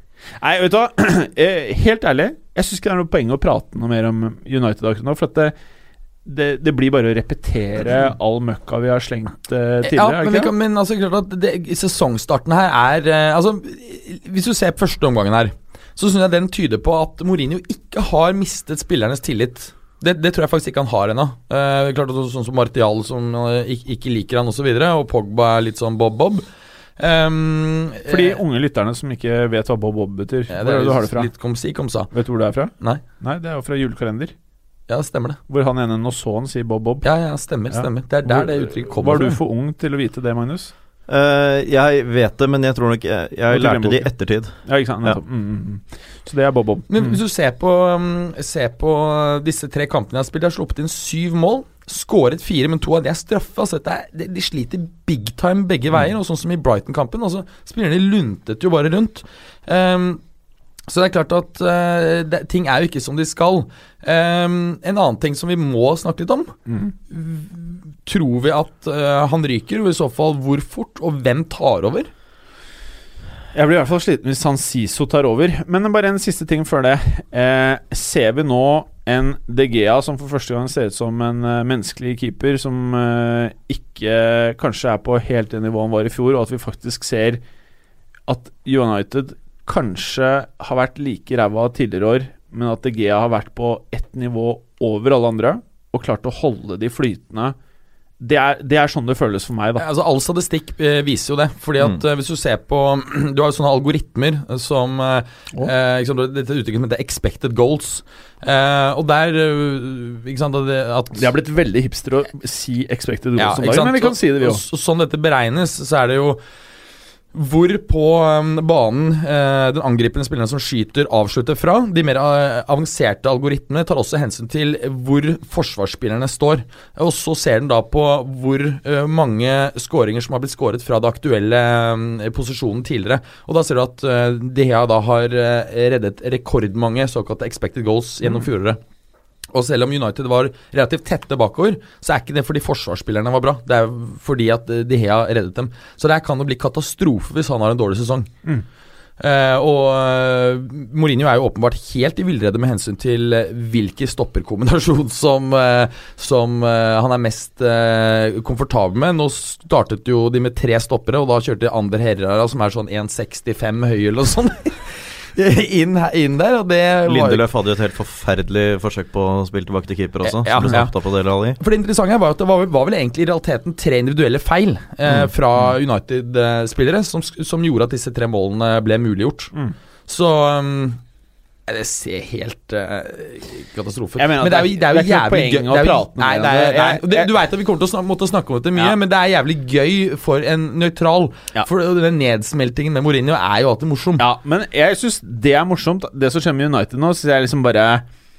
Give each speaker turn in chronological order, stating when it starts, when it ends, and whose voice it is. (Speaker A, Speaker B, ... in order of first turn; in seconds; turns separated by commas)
Speaker A: 0.4-5.5, Speaker A: 6.2-10.5, Speaker B: 9.8-26.4, Speaker B: 27.0-28.4, Speaker A: 28.1-31.3, Speaker B: 30.5-32.1, Speaker A: 32.1-34.3, Speaker B: 34.9-35.4, Speaker A: 35.5-37.0, Speaker B: 37.0-39.4, Speaker A: 37.7-40.7, Speaker C: 41.1-44.5, Speaker A: 43.5-47.2, Speaker B: 46.9-60.2, Speaker B: 60.9-66.5, Speaker A: 66.7-66.9, Speaker B: 67.1-72.1, Speaker A: 73.5-87.4, Speaker A: 88.3-97.5, Speaker A: 98.2-99.8, Speaker B: 99.8-111.2, Speaker A: 111.1-114.6, Speaker B: 113.4-116.4, Speaker B: 117.3-138.8, Speaker B: 139.5-148.3, Speaker B: 149.2-167.4, Speaker C: 167.1-171.6, Speaker B: 170.2-170.9, Speaker B: 171.6-179.5, Speaker B: 180.1-181.0, Speaker B: 181.7-194.2, Speaker A: 184.2-187.3, Speaker A: 194.2-198.0